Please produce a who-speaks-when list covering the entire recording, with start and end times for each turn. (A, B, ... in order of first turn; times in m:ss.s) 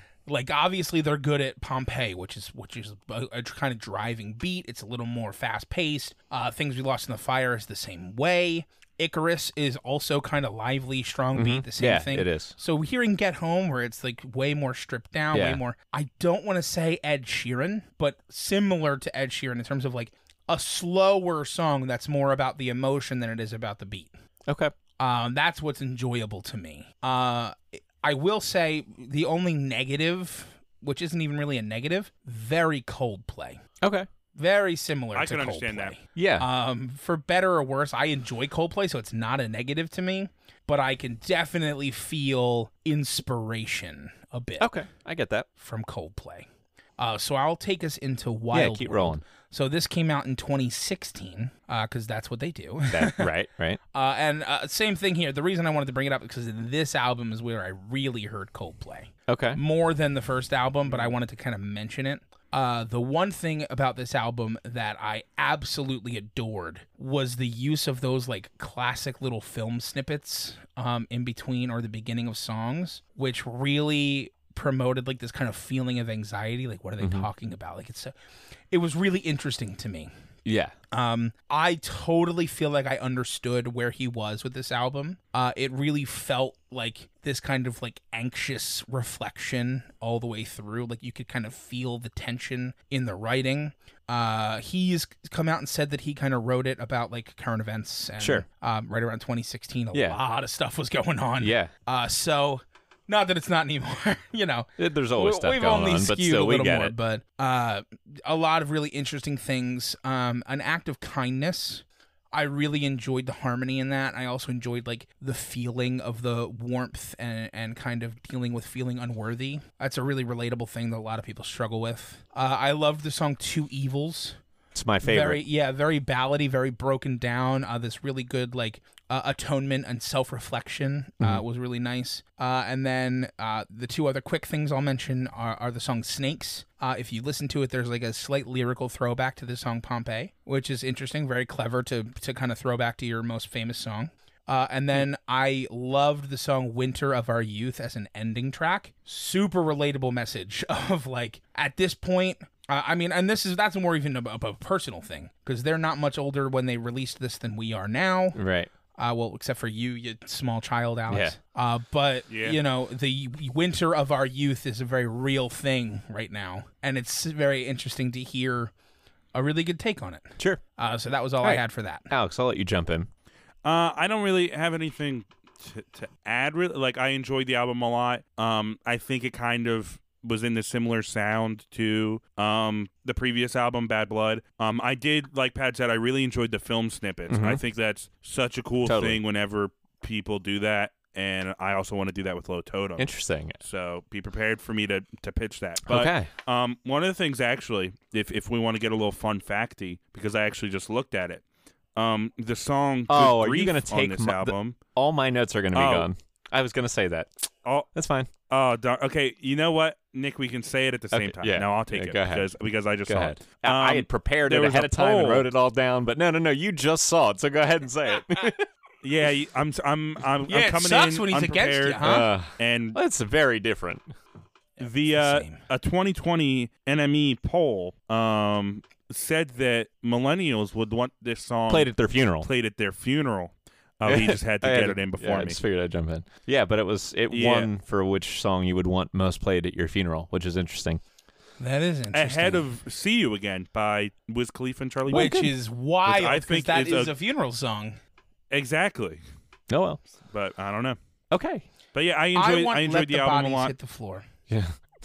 0:00.3-0:24.2 A
0:11.4-0:12.6 B
0:15.3-0:15.6 B
0:24.5-0:24.7 B
0:25.0-0:33.6 A
0:33.8-0:34.1 B
0:34.4-0:44.7 A
0:35.2-0:36.0 C
0:36.2-0:36.5 B
0:44.6-0:45.5 B
0:45.6-0:46.5 A
0:47.0-0:53.3 A
0:48.5-0:49.2 B
0:52.9-0:53.8 B
0:53.9-1:18.1 A
0:59.3-0:59.6 B
1:17.0-1:17.3 B
1:18.7-1:20.1 A
1:20.4-1:20.8 B
1:20.9-2:04.4 A
1:38.2-1:38.4 B
1:39.9-1:40.2 B
1:41.4-1:41.7 B
1:44.8-1:47.0 B
2:04.7-2:05.4 B
2:05.0-2:38.4 A
2:38.4-2:38.7 B
2:39.0-2:48.7 A
2:41.1-2:41.4 B
2:42.3-2:42.6 C
2:49.3-2:52.1 A
2:51.4-2:53.1 B
2:53.6-3:13.1 C
3:07.3-3:07.6 B
3:08.8-3:09.2 B
3:13.0-3:13.6 B
3:13.6-3:21.4 C
3:15.9-3:16.3 B
3:22.0-3:24.8 C
3:23.1-3:28.3 B
3:25.7-3:26.1 C
3:28.5-3:35.5 C
3:31.1-3:32.5 B
3:33.1-3:38.7 B
3:39.0-3:43.0 C
3:40.5-3:42.3 A
3:42.0-3:44.1 B
3:44.8-3:55.6 C
3:44.8-3:45.6 A
3:51.7-3:52.5 B
3:54.1-4:01.0 B
3:57.3-3:57.7 C
4:01.6-4:02.7 A
4:02.1-4:05.3 C
4:05.1-4:05.5 B
4:05.1-4:08.0 A
4:06.0-4:07.1 C
4:08.5-4:09.2 C
4:09.7-4:10.0 B
4:10.3-4:11.0 C
4:11.3-4:11.6 B
4:11.9-4:13.7 C
4:12.4-4:14.3 A
4:14.5-4:14.8 B